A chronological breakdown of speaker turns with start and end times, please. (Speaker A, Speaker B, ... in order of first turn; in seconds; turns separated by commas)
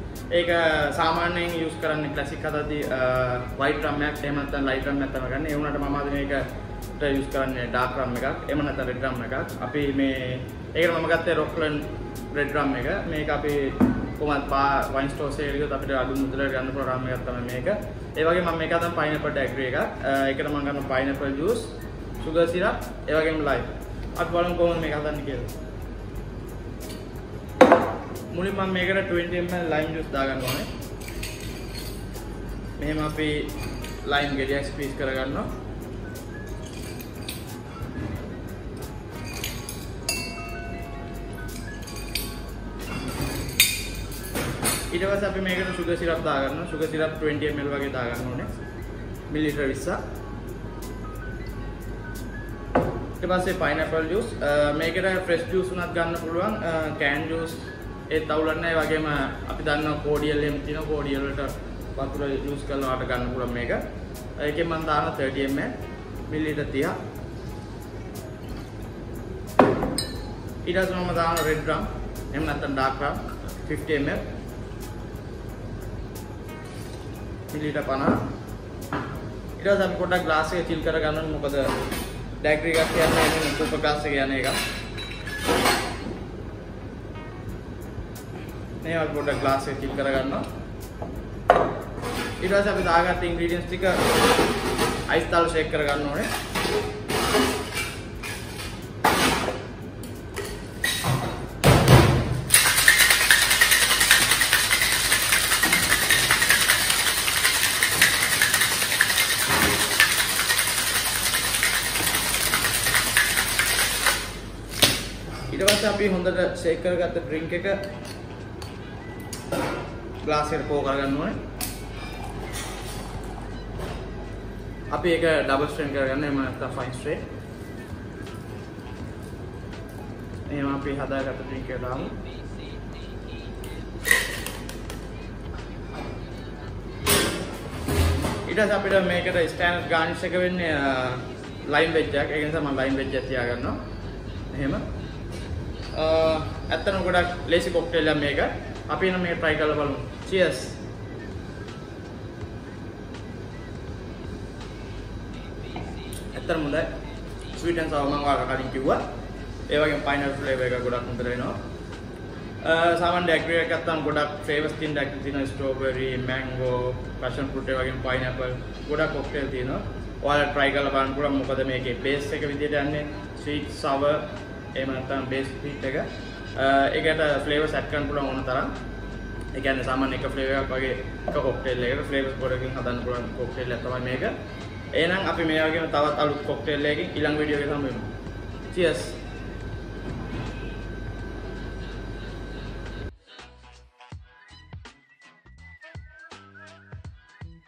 Speaker A: 0.3-25.5, Speaker A: 28.3-30.7, Speaker A: 32.8-35.5, Speaker A: 44.9-48.5, Speaker A: 49.3-50.0, Speaker A: 53.2-63.8, Speaker A: 64.4-65.8, Speaker A: 66.3-67.0, Speaker A: 70.6-74.2, Speaker A: 77.5-78.3, Speaker A: 79.6-81.8, Speaker A: 82.4-84.6, Speaker A: 88.8-90.5, Speaker A: 92.4-94.1, Speaker A: 95.1-96.3, Speaker A: 115.5-117.9, Speaker A: 120.2-121.4, Speaker A: 124.9-127.3, Speaker A: 130.5-132.2, Speaker A: 138.4-143.8, Speaker A: 144.5-144.8, Speaker A: 145.9-150.8, Speaker A: 156.3-156.9, Speaker A: 157.5-159.0, Speaker A: 159.7-161.6, Speaker A: 162.6-178.7, Speaker A: 179.5-184.3, Speaker A: 184.9-188.1, Speaker A: 188.7-189.2